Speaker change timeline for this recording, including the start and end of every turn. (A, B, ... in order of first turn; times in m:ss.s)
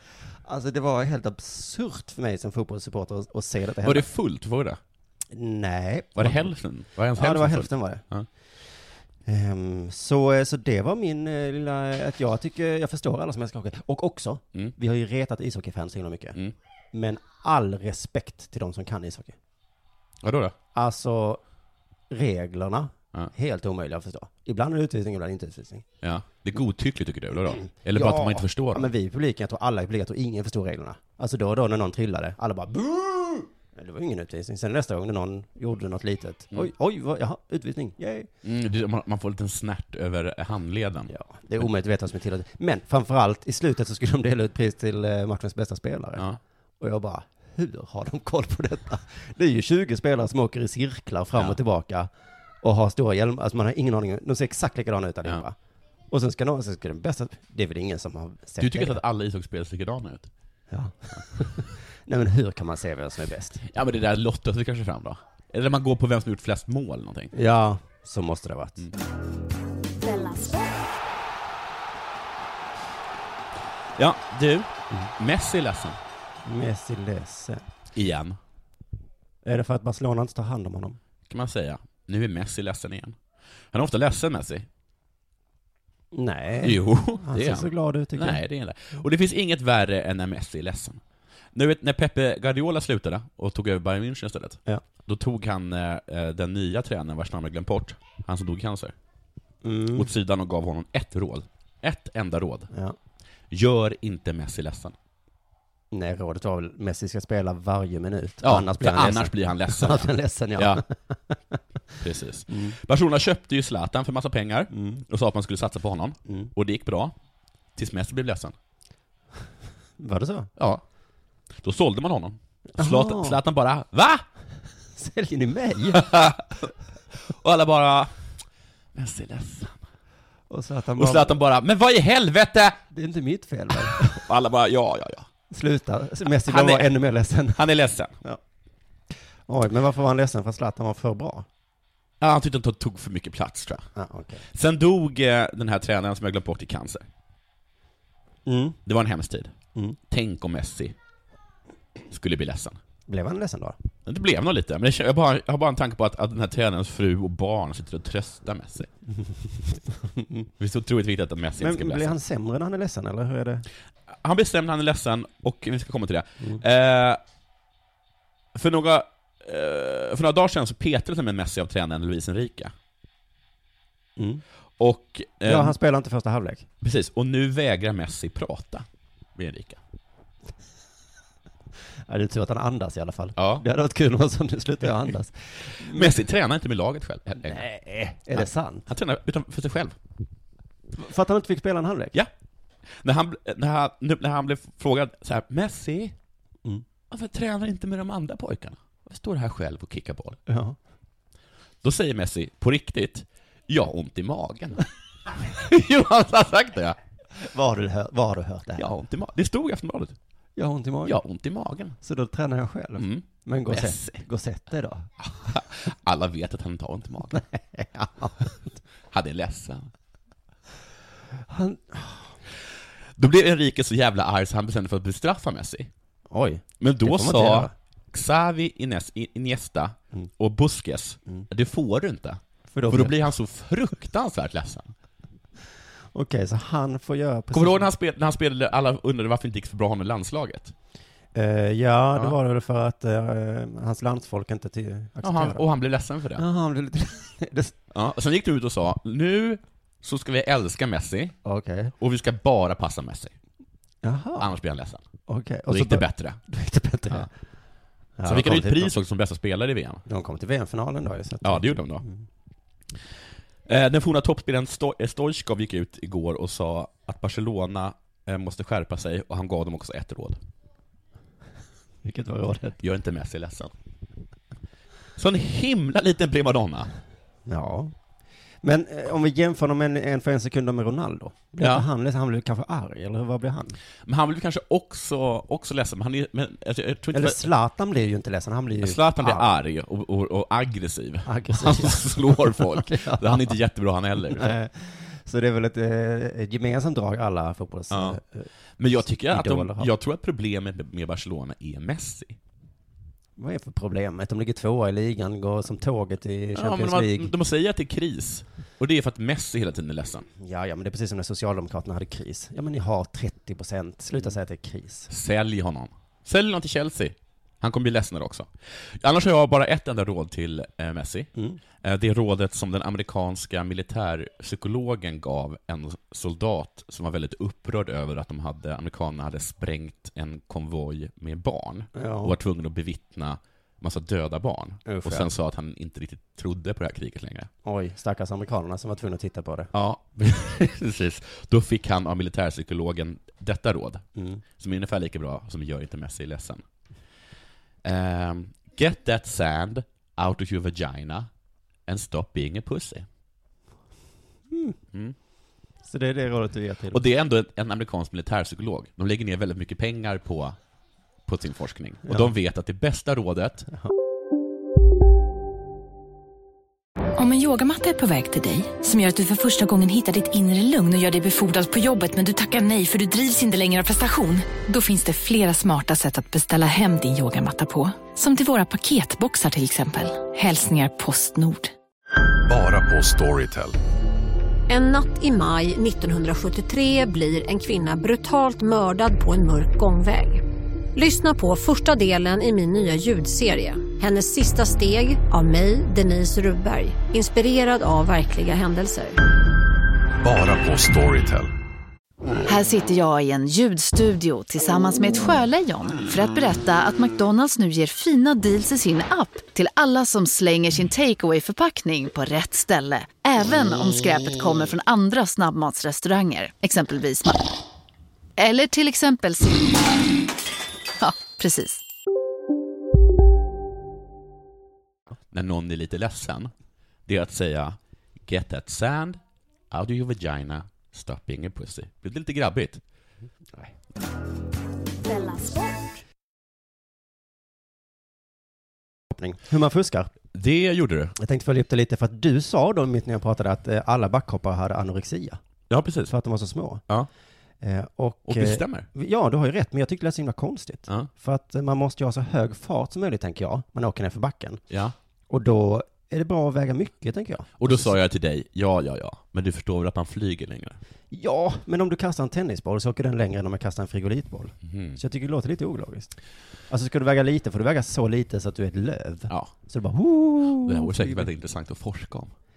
0:00.4-0:04.1 A
0:03.8-0:04.8 B
0:05.3-0:06.5 A
0:06.2-0:08.3 B
0:07.2-0:08.0 A
0:09.2-0:16.4 A
0:16.9-0:19.4 A
0:20.2-0:20.5 B
0:20.7-0:21.4 A
0:22.1-0:25.8 A
0:26.0-0:28.9 B
0:27.6-0:38.3 A
0:38.4-0:41.6 B
0:41.1-0:46.3 A
0:46.8-0:52.1 A
0:52.6-0:55.6 A
0:56.1-0:59.0 A
0:58.6-1:00.3 B
1:00.7-1:03.6 A
1:03.6-1:07.3 B
1:07.3-1:08.9 A
1:10.0-1:10.9 C
1:14.0-1:16.0 B
1:16.4-1:17.6 A
1:17.9-1:18.4 B
1:19.4-1:21.0 A
1:21.3-1:23.2 B
1:23.7-1:24.7 B
1:26.1-1:28.4 A
1:26.6-1:31.0 B
1:31.5-1:38.9 B
1:39.6-1:40.1 A
1:39.9-1:42.7 B
1:42.7-1:43.0 A
1:43.5-1:44.9 B
1:45.9-1:51.6 A
1:48.4-1:50.8 B
1:52.0-1:57.1 B
1:52.5-1:52.8 A
1:54.7-1:55.0 A
1:57.8-1:58.5 B
2:00.0-2:00.5 A
2:00.6-2:00.8 B
2:01.6-2:04.2 B
2:02.8-2:03.4 A
2:05.0-2:06.1 A
2:05.9-2:06.7 B
2:07.2-2:08.1 B
2:08.9-2:09.8 B
2:10.5-2:11.4 A
2:11.0-2:12.8 B
2:12.9-2:14.2 A
2:13.9-2:15.3 B
2:15.5-2:17.6 A
2:16.2-2:17.0 B
2:17.5-2:18.2 B
2:19.5-2:21.5 A
2:22.2-2:23.8 B
2:24.0-2:24.4 A
2:24.5-2:27.1 B
2:28.4-2:28.8 A
2:28.8-2:29.5 B
2:30.1-2:30.9 B
2:32.1-2:32.8 B
2:33.1-2:33.8 A
2:34.0-2:38.9 B
2:39.7-2:40.5 A
2:40.6-2:42.2 B
2:41.6-2:43.6 A
2:44.2-2:47.2 B
2:48.5-2:52.7 B
2:54.2-2:54.4 A
2:54.8-2:55.8 B
2:55.4-2:56.6 A
2:56.8-2:59.8 B
3:02.1-3:06.2 A
3:03.4-3:03.6 B
3:05.8-3:07.6 B
3:07.4-3:08.8 A
3:08.3-3:10.0 B
3:11.0-3:12.1 A
3:12.9-3:16.2 B
3:17.1-3:20.4 B
3:20.5-3:20.8 A
3:21.8-3:24.8 B
3:25.4-3:27.0 B
3:27.4-3:28.9 A
3:28.8-3:30.2 B
3:30.6-3:31.2 A
3:31.0-3:32.0 B
3:32.0-3:35.1 A
3:33.0-3:34.2 B
3:35.2-3:37.4 B
3:37.5-3:38.5 A
3:39.1-3:39.9 B
3:41.5-3:42.3 A
3:43.2-3:45.9 B
3:46.3-3:47.7 A
3:46.8-3:54.9 B
3:52.7-3:53.2 A
3:56.1-3:57.9 A
3:57.5-4:00.7 B
4:01.3-4:05.6 A
4:05.2-4:06.4 B
4:06.4-4:07.8 A
4:07.9-4:11.4 B
4:11.4-4:11.9 A
4:12.0-4:13.3 B
4:14.0-4:14.5 A
4:14.4-4:15.0 B
4:15.3-4:17.3 A
4:15.7-4:16.4 B
4:18.2-4:19.0 A
4:18.2-4:20.0 B
4:20.0-4:22.2 A
4:21.4-4:22.0 B
4:23.7-4:30.4 B
4:32.0-4:32.8 A
4:32.8-4:33.7 B
4:35.2-4:36.9 B
4:37.4-4:37.9 A
4:38.6-4:43.8 A
4:41.6-4:41.8 B
4:44.0-4:47.4 B
4:47.1-4:49.5 A
4:48.8-4:54.6 B
4:51.2-4:53.5 A
4:54.3-4:58.5 A
4:57.9-4:58.2 B
4:58.8-5:02.4 B
4:59.0-4:59.9 A
5:03.4-5:07.3 A
5:06.5-5:10.2 B
5:10.4-5:15.1 A
5:15.1-5:21.3 B
5:21.8-5:37.5 B
5:31.9-5:32.3 A
5:34.8-5:35.3 A
5:37.6-5:39.7 A
5:39.7-5:44.0 B
5:44.2-5:44.4 A
5:44.6-5:46.6 B
5:47.8-5:51.3 B
5:51.9-5:53.1 B
5:54.5-5:54.8 A
5:55.8-5:57.0 A
5:56.9-6:00.6 B
6:01.2-6:03.7 B
6:07.2-6:21.7 D
6:22.5-6:23.8 E
6:24.7-6:30.4 F
6:30.9-6:39.2 F
6:40.2-6:41.5 E
6:42.5-6:57.4 G
6:58.4-6:59.9 G
7:01.0-7:01.8 G
7:05.3-7:06.5 B
7:07.0-7:09.2 B
7:09.7-7:12.8 B
7:15.0-7:16.0 C
7:19.1-7:20.1 A
7:20.3-7:21.2 B
7:21.2-7:25.4 A
7:25.7-7:26.1 B
7:26.1-7:26.8 A
7:27.6-7:34.6 A
7:28.3-7:28.9 B
7:34.7-7:34.9 B
7:35.3-7:38.0 A
7:37.6-7:40.8 B
7:41.1-7:46.1 A
7:44.6-7:45.0 B
7:46.7-7:51.3 A
7:50.6-7:52.3 B